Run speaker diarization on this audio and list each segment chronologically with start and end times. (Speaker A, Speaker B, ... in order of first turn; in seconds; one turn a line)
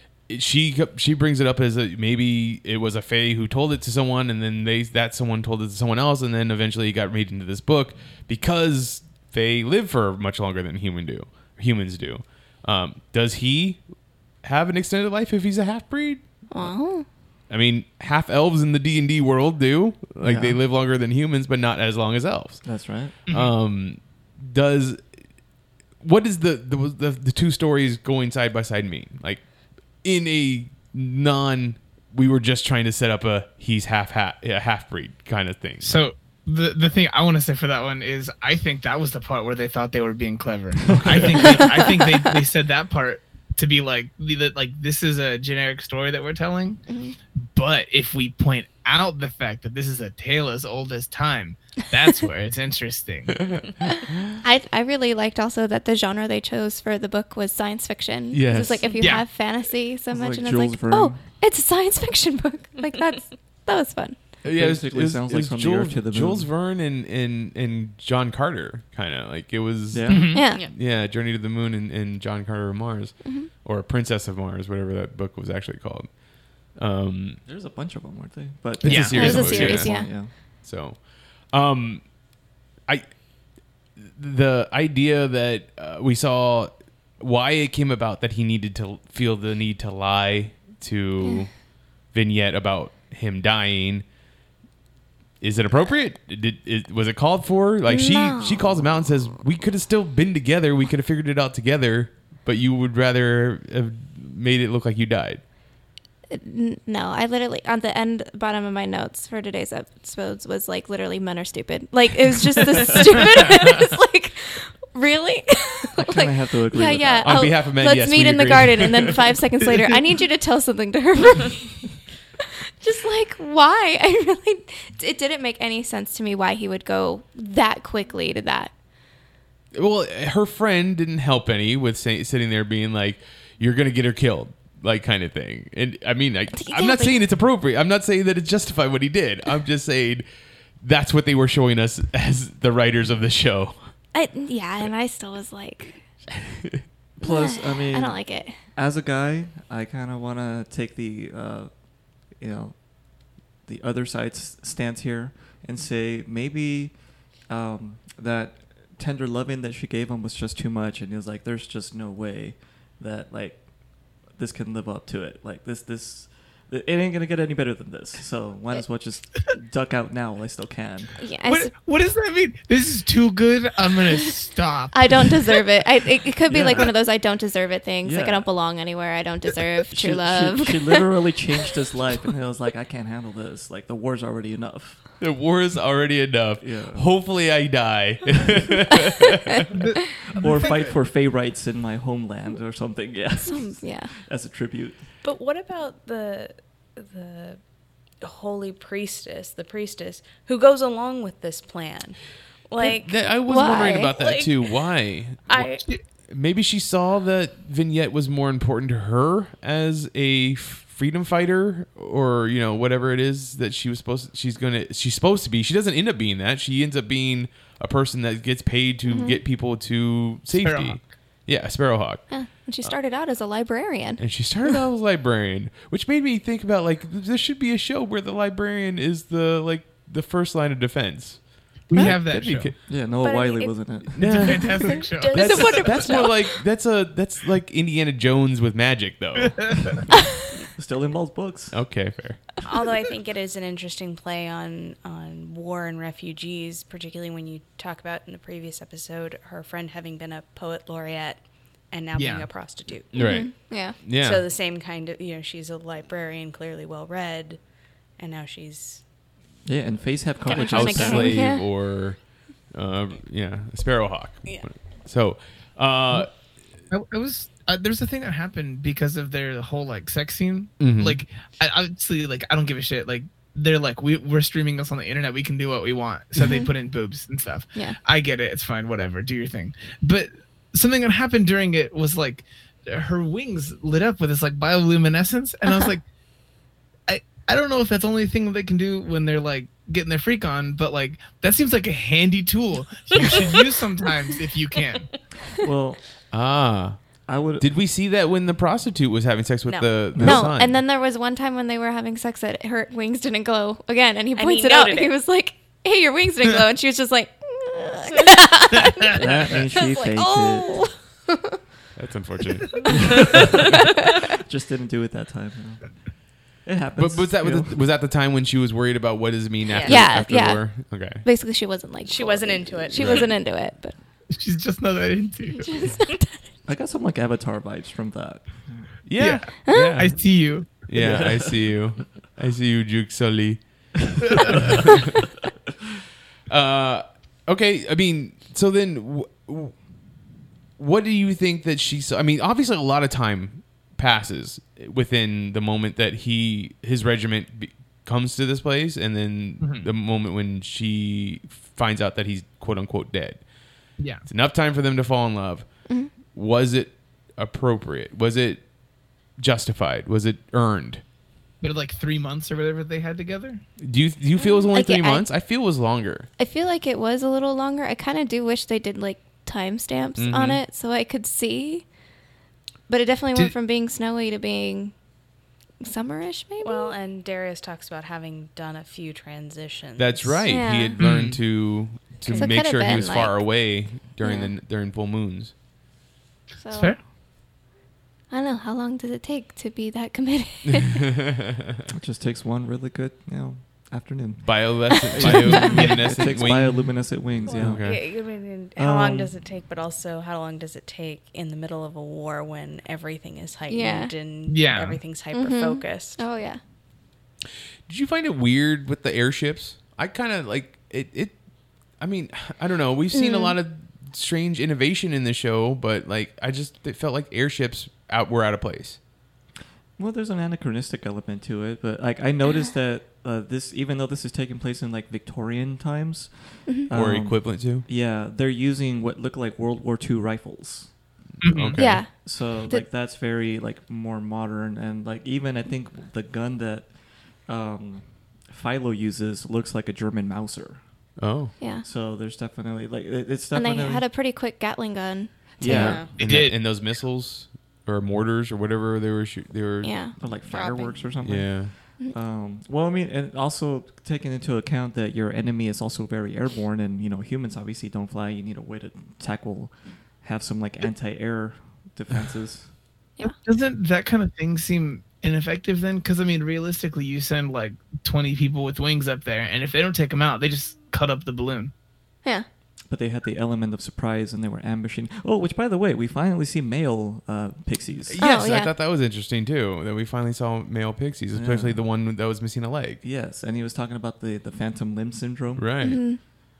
Speaker A: 0.3-13.8
Speaker A: 14.4-16.7
Speaker B: 16.5-17.1
Speaker A: 17.5-22.6
Speaker C: 20.2-20.6
Speaker C: 22.6-23.1
Speaker D: 23.3-23.5
Speaker A: 23.3-25.0
Speaker A: 26.0-29.5
Speaker A: 30.0-35.9
Speaker D: 35.8-46.8
Speaker B: 46.9-47.1
Speaker D: 47.5-53.5
Speaker B: 54.4-64.2
Speaker A: 58.3-58.9
Speaker D: 59.0-59.2
Speaker C: 60.1-61.2
Speaker A: 64.4-77.4
Speaker C: 64.5-66.5
Speaker C: 69.9-70.4
Speaker D: 70.1-70.5
Speaker B: 70.3-70.6
Speaker B: 73.2-73.5
Speaker C: 77.4-80.3
Speaker A: 78.8-82.1
Speaker D: 78.8-79.4
Speaker B: 79.1-80.1
Speaker A: 82.9-83.1
Speaker A: 84.0-91.5
Speaker A: 92.1-94.0
Speaker A: 95.4-105.4
Speaker B: 97.9-98.8
Speaker B: 106.3-121.9
Speaker C: 116.0-117.5
Speaker A: 117.2-119.2
Speaker B: 122.8-128.7
Speaker A: 129.7-140.2
Speaker B: 136.5-137.2
Speaker A: 140.8-143.8
Speaker B: 144.1-146.0
Speaker C: 147.2-151.7
Speaker B: 147.2-148.6
Speaker C: 152.3-152.8
Speaker C: 153.7-156.9
Speaker C: 157.5-163.6
Speaker C: 164.3-171.2
Speaker B: 171.2-171.7
Speaker D: 171.4-175.6
Speaker B: 174.9-181.0
Speaker C: 176.5-176.9
Speaker C: 178.0-178.5
Speaker C: 179.9-185.0
Speaker A: 185.2-189.6
Speaker C: 186.6-187.1
Speaker D: 189.7-190.9
Speaker C: 190.2-195.1
Speaker B: 193.4-194.1
Speaker E: 195.2-197.6
Speaker E: 198.2-203.3
Speaker A: 202.8-222.9
Speaker B: 203.4-204.1
Speaker E: 204.0-204.5
Speaker E: 205.4-205.8
Speaker B: 219.0-219.4
Speaker D: 220.5-221.1
Speaker B: 222.3-224.2
Speaker A: 224.2-232.8
Speaker D: 231.9-232.7
Speaker C: 232.9-234.7
Speaker E: 233.2-236.6
Speaker A: 234.2-240.0
Speaker D: 234.2-236.0
Speaker C: 240.8-241.8
Speaker A: 241.7-242.6
Speaker E: 242.6-253.1
Speaker D: 252.1-252.5
Speaker A: 253.1-254.4
Speaker B: 253.2-254.1
Speaker E: 254.1-257.6
Speaker E: 258.2-259.0
Speaker C: 259.6-261.4
Speaker B: 260.4-261.6
Speaker A: 260.5-266.3
Speaker D: 266.9-286.0
Speaker A: 270.8-271.2
Speaker B: 276.4-276.7
Speaker D: 287.1-295.1
Speaker C: 295.6-296.0
Speaker A: 296.3-297.0
Speaker C: 297.3-297.8
Speaker A: 297.6-300.8
Speaker E: 299.7-300.1
Speaker C: 300.1-300.5
Speaker B: 300.1-311.6
Speaker E: 304.3-305.1
Speaker C: 309.1-310.8
Speaker A: 311.9-312.8
Speaker C: 312.9-316.0
Speaker C: 316.6-317.8
Speaker A: 317.0-321.2
Speaker E: 319.7-320.0
Speaker B: 319.8-323.9
Speaker E: 322.0-323.3
Speaker A: 322.9-323.3
Speaker D: 324.3-325.7
Speaker B: 325.6-326.5
Speaker C: 326.6-328.9
Speaker A: 329.0-330.1
Speaker D: 329.2-330.7
Speaker B: 329.6-330.0
Speaker A: 330.9-333.6
Speaker C: 330.9-331.8
Speaker D: 334.3-334.6
Speaker A: 334.3-335.0
Speaker A: 336.5-339.8
Speaker A: 340.8-353.4
Speaker D: 349.6-349.9
Speaker D: 354.0-354.2
Speaker A: 354.2-358.7
Speaker A: 359.4-361.0
Speaker D: 361.6-363.6
Speaker A: 363.8-366.3
Speaker B: 364.4-365.3
Speaker B: 366.4-371.9
Speaker A: 370.2-370.6
Speaker B: 372.9-374.9
Speaker B: 375.8-376.9
Speaker E: 376.6-380.5
Speaker A: 380.0-385.5
Speaker B: 380.5-381.0
Speaker D: 381.0-381.4
Speaker E: 382.2-382.6
Speaker B: 382.3-383.4
Speaker B: 384.2-384.5
Speaker B: 386.6-386.9
Speaker D: 386.7-387.0
Speaker B: 388.3-391.0
Speaker C: 391.9-398.1
Speaker A: 394.4-398.0
Speaker B: 395.1-395.8
Speaker D: 395.7-396.1
Speaker E: 397.4-406.2
Speaker C: 398.8-399.3
Speaker B: 403.7-404.1
Speaker D: 404.5-405.0
Speaker B: 405.3-406.6
Speaker A: 407.9-411.4
Speaker A: 412.0-419.0
Speaker B: 413.1-413.6
Speaker C: 420.0-430.9
Speaker A: 426.9-427.9
Speaker D: 431.4-431.8
Speaker A: 431.4-432.0
Speaker B: 431.8-432.8
Speaker C: 432.1-440.8
Speaker A: 441.2-441.5
Speaker B: 441.6-441.9
Speaker C: 441.8-444.1
Speaker B: 443.5-446.0
Speaker C: 445.6-446.1
Speaker A: 445.6-449.9
Speaker E: 445.7-446.1
Speaker D: 446.2-446.5
Speaker B: 449.8-450.9
Speaker C: 450.2-462.7
Speaker A: 451.2-451.7
Speaker D: 463.4-471.7
Speaker C: 472.9-478.2
Speaker A: 478.1-483.0
Speaker B: 478.2-478.7
Speaker C: 481.3-481.8
Speaker C: 483.0-486.1
Speaker A: 485.6-486.0
Speaker B: 485.8-486.2